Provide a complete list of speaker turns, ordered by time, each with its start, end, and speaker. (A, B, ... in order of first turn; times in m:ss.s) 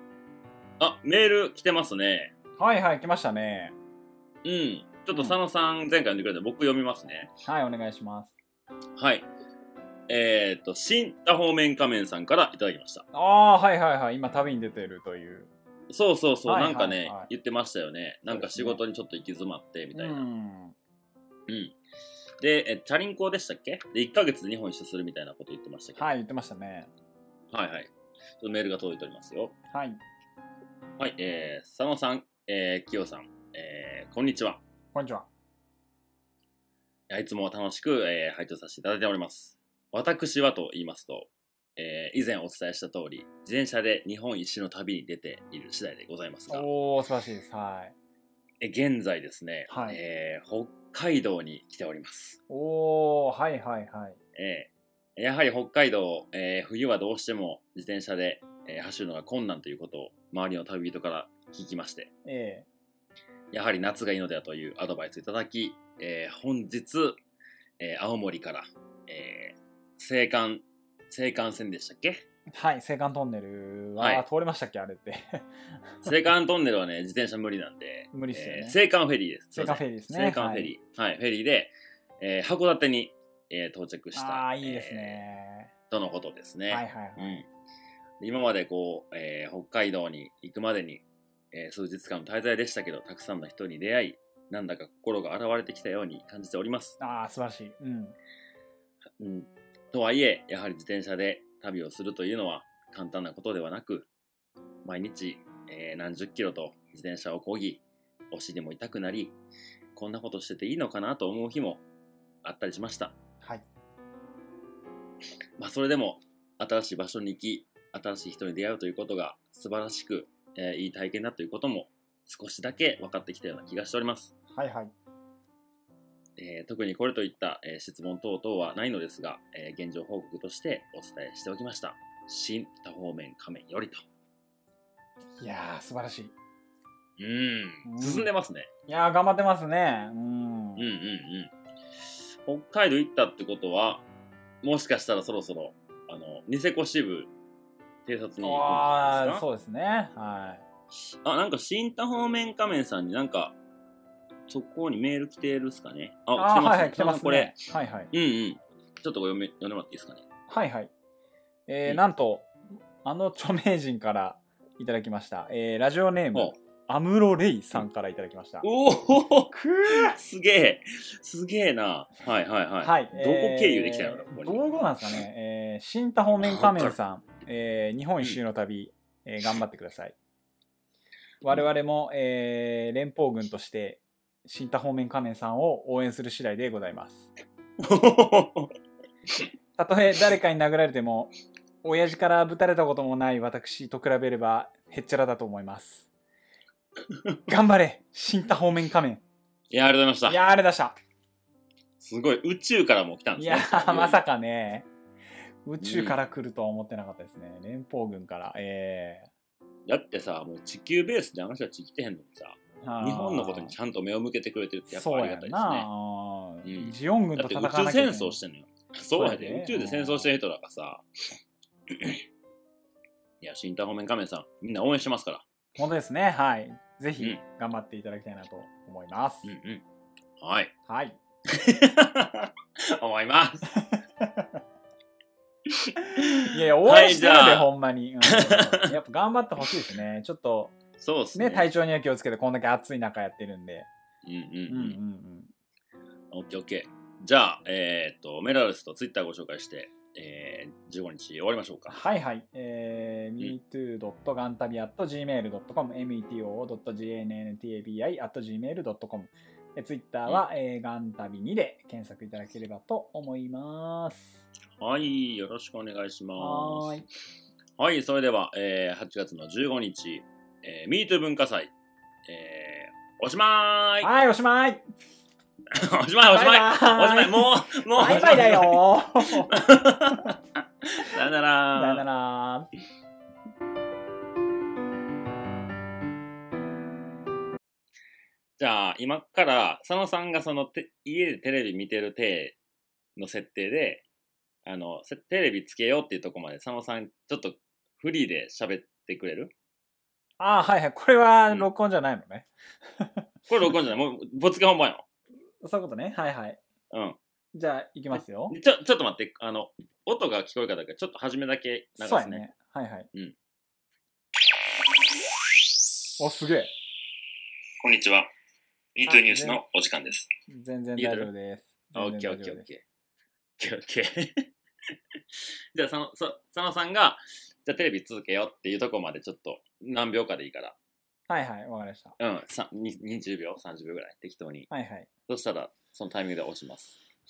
0:00.8-0:02.3 A
0:02.6-0:03.7 B
0:04.4-0:07.3 A
0:07.4-0:08.3 B
0:09.0-0:09.3 A
0:10.1-0:13.1 A
0:13.1-0:15.5 B
0:15.9-0:20.2 A
0:16.5-0:17.3 B
0:18.3-0:18.8 B
0:19.9-0:20.8 B
0:21.5-0:21.8 A
0:22.4-0:26.1 A
0:26.0-0:26.9 B
0:27.5-0:29.6 A
0:29.7-0:30.0 B
0:31.0-0:34.6 A
0:34.9-0:35.3 B
0:37.1-0:46.7 A
0:46.5-0:47.9 B
0:48.6-0:52.4 A
0:49.7-0:50.0 B
0:52.5-0:54.2 B
0:54.4-1:02.1 A
1:02.2-1:02.7 B
1:03.5-1:07.2 A
1:07.8-1:12.2 A
1:12.5-1:16.1 B
1:14.0-1:14.2 A
1:16.0-1:25.2 A
1:18.1-1:18.8 B
1:19.6-1:20.7 B
1:24.2-1:25.7 B
1:25.9-1:27.5 A
1:26.7-1:27.4 B
1:28.2-1:37.0 A
1:37.0-1:38.2 B
1:39.2-1:44.1 A
1:44.8-1:49.4 A
1:49.9-1:51.8 A
1:52.4-1:53.2 A
1:55.6-2:04.4 A
2:04.5-2:04.9 B
2:06.4-2:14.0 A
2:15.4-2:16.3 B
2:17.2-2:18.7 A
2:17.8-2:18.3 B
2:18.9-2:20.9 B
2:20.8-2:21.5 A
2:22.5-2:24.1 A
2:24.6-2:27.3 A
2:28.1-2:29.4 A
2:28.4-2:30.6 B
2:31.2-2:33.6 A
2:34.5-2:40.3 A
2:36.4-2:38.1 B
2:40.5-2:40.9 B
2:41.7-2:42.5 B
2:43.0-2:48.7 B
2:48.6-2:54.7 A
2:49.5-2:50.2 B
2:52.8-3:00.2 B
2:56.4-2:57.0 A
3:01.4-3:07.3 B
3:07.8-3:08.7 A
3:09.8-3:16.1 B
3:17.1-3:17.4 A
3:17.5-3:19.2 B
3:19.7-3:20.4 A
3:20.3-3:21.0 B
3:22.0-3:24.2 A
3:23.4-3:24.9 B
3:25.6-3:29.3 B
3:25.8-3:26.2 A
3:29.9-3:35.9 A
3:32.8-3:33.8 B
3:34.9-3:38.4 B
3:36.6-3:41.3 A
3:39.2-3:40.3 B
3:41.9-3:42.2 A
3:43.4-3:45.4 A
3:45.8-3:49.5 B
3:49.4-3:49.8 A
3:50.4-3:50.7 A
3:50.9-3:51.2 B
3:51.5-3:53.7 A
3:53.7-3:54.6 B
3:55.7-3:57.7 A
3:56.1-4:00.8 B
3:58.3-3:58.9 A
4:01.0-4:01.7 A
4:01.4-4:03.9 B
4:04.2-4:05.0 A
4:04.7-4:05.5 B
4:06.3-4:12.0 A
4:11.9-4:24.4 B
4:24.8-4:26.9 A
4:26.4-4:27.0 B
4:27.8-4:31.7 A
4:32.3-4:34.1 A
4:34.0-4:34.8 B
4:35.7-4:42.0 A
4:36.3-4:39.6 B
4:41.7-4:42.7 B
4:48.6-4:52.6 A
4:53.2-4:54.0 A
4:54.6-4:59.5 A
5:00.4-5:03.3 B
5:03.5-5:05.0 A
5:05.6-5:06.6 B
5:06.9-5:07.2 A
5:07.5-5:08.6 B
5:08.5-5:12.4 A
5:12.0-5:13.1 B
5:16.2-5:16.7 B
5:17.8-5:18.3 A
5:19.0-5:20.3 A
5:19.1-5:19.6 B
5:20.5-5:22.7 B
5:21.0-5:21.3 A
5:22.0-5:22.8 A
5:23.6-5:24.5 A
5:25.3-5:30.8 A
5:31.3-5:32.2 B
5:32.2-5:34.7 A
5:34.7-5:35.1 B
5:35.3-5:37.0 A